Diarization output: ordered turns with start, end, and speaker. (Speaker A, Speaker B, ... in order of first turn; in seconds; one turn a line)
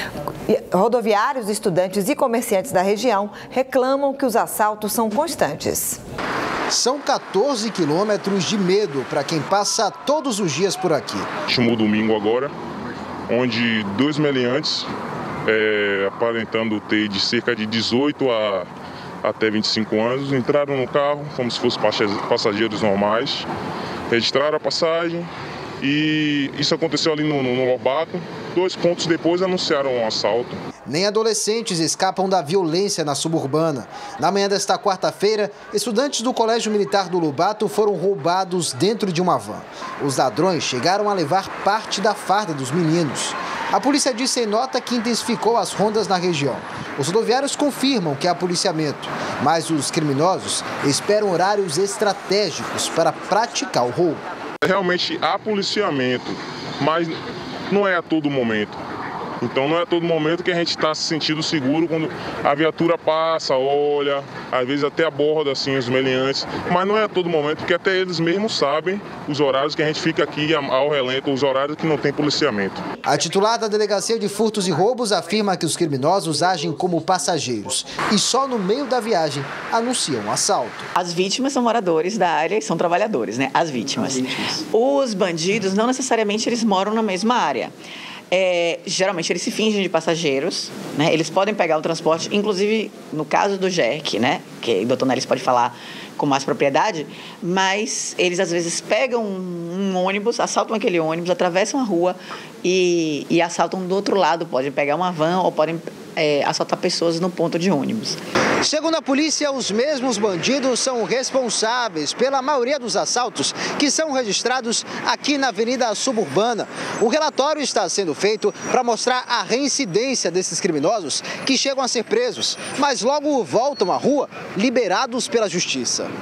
Speaker A: 0.5-6.0
Speaker B: 6.7-11.3
Speaker C: 11.5-12.5
Speaker C: 13.3-14.9
Speaker C: 15.4-18.7
Speaker C: 19.2-23.5
Speaker C: 24.1-30.6
Speaker B: 30.9-54.2
Speaker C: 54.6-57.2
Speaker C: 57.7-58.8
Speaker C: 59.4-72.8
Speaker B: 73.0-80.9
Speaker D: 80.9-87.7
Speaker D: 88.3-108.2
Speaker B: 108.6-126.1